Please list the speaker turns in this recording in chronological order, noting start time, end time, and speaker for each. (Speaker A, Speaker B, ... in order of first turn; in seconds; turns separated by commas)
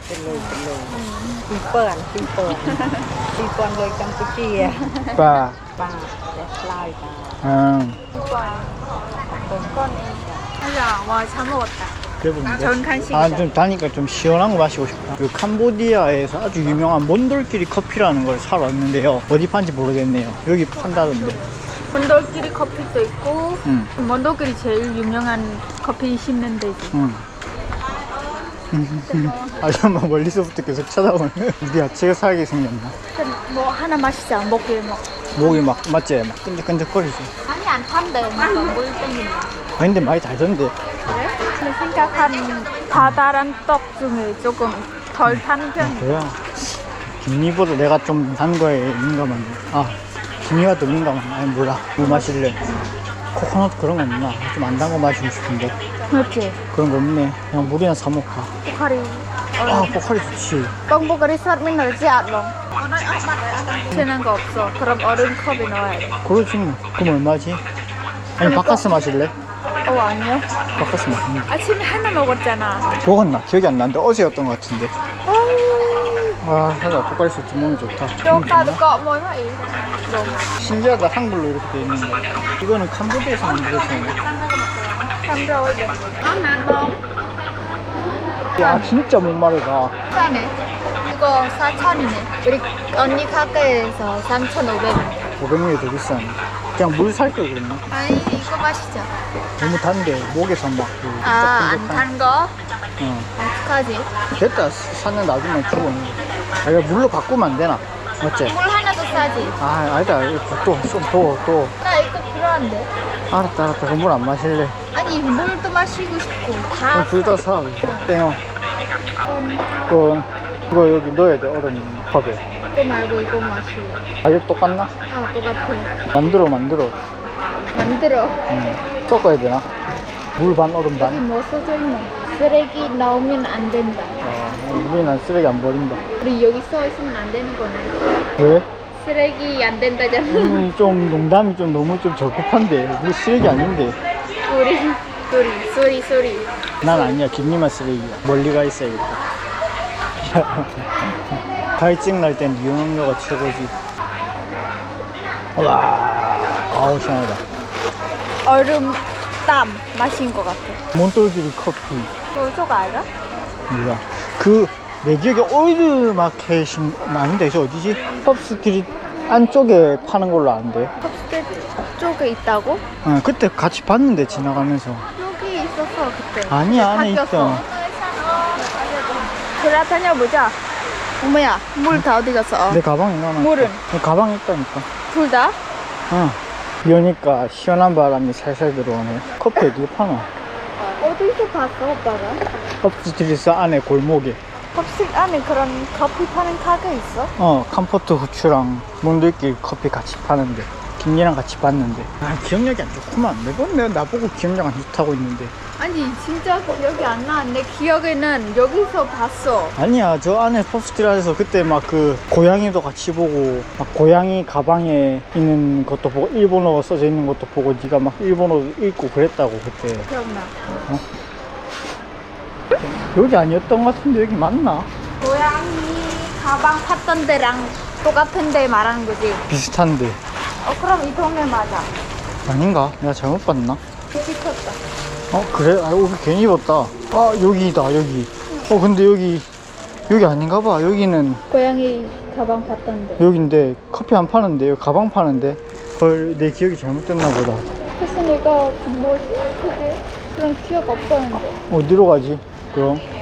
Speaker A: 0.1-5.0, Speaker B: 0.3-1.4, Speaker B: 2.6-3.1, Speaker B: 4.6-5.3, Speaker C: 5.1-5.6, Speaker A: 5.8-7.4, Speaker C: 7.4-8.0, Speaker B: 8.1-8.8, Speaker B: 9.4-13.5, Speaker C: 12.2-21.4, Speaker B: 20.7-26.9, Speaker C: 23.6-23.9, Speaker C: 26.9-27.2, Speaker C: 28.7-32.9, Speaker B: 29.1-29.6, Speaker B: 33.1-35.6, Speaker C: 35.3-37.3, Speaker B: 37.5-39.5, Speaker C: 39.8-40.7, Speaker B: 41.1-46.2, Speaker C: 45.2-52.6, Speaker B: 52.0-52.3, Speaker C: 53.3-55.7, Speaker B: 56.0-56.6, Speaker C: 56.7-58.5, Speaker B: 58.6-60.0, Speaker C: 59.6-60.7, Speaker B: 60.9-66.2, Speaker C: 66.2-67.6, Speaker C: 68.4-69.3, Speaker B: 68.4-68.9, Speaker B: 69.8-70.5, Speaker C: 70.8-71.5, Speaker B: 71.5-73.0, Speaker C: 73.0-74.9, Speaker B: 75.2-76.4, Speaker C: 76.4-78.8, Speaker B: 78.2-80.5, Speaker C: 80.5-84.2, Speaker B: 83.9-87.0, Speaker B: 88.5-88.9, Speaker C: 88.6-89.9, Speaker B: 90.1-95.2, Speaker C: 95.4-97.8, Speaker B: 97.9-99.1, Speaker C: 99.6-102.1, Speaker B: 101.2-102.5, Speaker C: 103.0-103.3, Speaker B: 103.4-104.1, Speaker C: 104.3-108.5, Speaker B: 108.4-109.6, Speaker C: 109.6-111.7, Speaker B: 111.8-112.9, Speaker C: 113.3-114.7, Speaker B: 114.9-118.1, Speaker C: 116.9-118.4, Speaker B: 119.3-119.7, Speaker C: 119.9-122.4, Speaker B: 122.7-124.0, Speaker C: 124.2-124.9, Speaker B: 125.1-126.0, Speaker C: 126.1-127.0, Speaker B: 127.7-128.4, Speaker C: 128.5-129.7, Speaker C: 130.4-131.2, Speaker B: 131.0-134.2, Speaker C: 134.2-136.0, Speaker B: 136.2-138.2, Speaker C: 138.4-138.7, Speaker B: 138.9-140.7, Speaker C: 140.2-144.0, Speaker B: 144.4-146.5, Speaker C: 146.8-149.2, Speaker C: 150.2-153.7, Speaker C: 155.6-157.4, Speaker B: 158.4-160.8, Speaker C: 160.9-162.1, Speaker B: 162.3-163.1, Speaker C: 163.7-170.9, Speaker B: 171.0-172.8, Speaker C: 173.0-175.1, Speaker B: 175.1-180.6, Speaker C: 176.5-177.7, Speaker B: 181.2-182.8, Speaker C: 182.7-184.9, Speaker B: 183.4-183.8, Speaker B: 185.1-185.6, Speaker C: 186.1-190.3, Speaker B: 190.9-192.6, Speaker C: 192.8-194.4, Speaker B: 194.7-197.3, Speaker C: 197.4-205.5, Speaker B: 205.8-209.8, Speaker C: 209.8-220.1, Speaker B: 220.1-220.5, Speaker C: 222.8-224.9, Speaker B: 225.2-229.4, Speaker C: 229.5-230.2, Speaker B: 230.6-231.9, Speaker C: 232.5-233.8, Speaker B: 234.1-234.8, Speaker C: 235.3-239.5, Speaker C: 240.1-241.4, Speaker B: 241.5-243.2, Speaker C: 243.2-247.7, Speaker B: 248.0-251.6, Speaker C: 251.5-253.0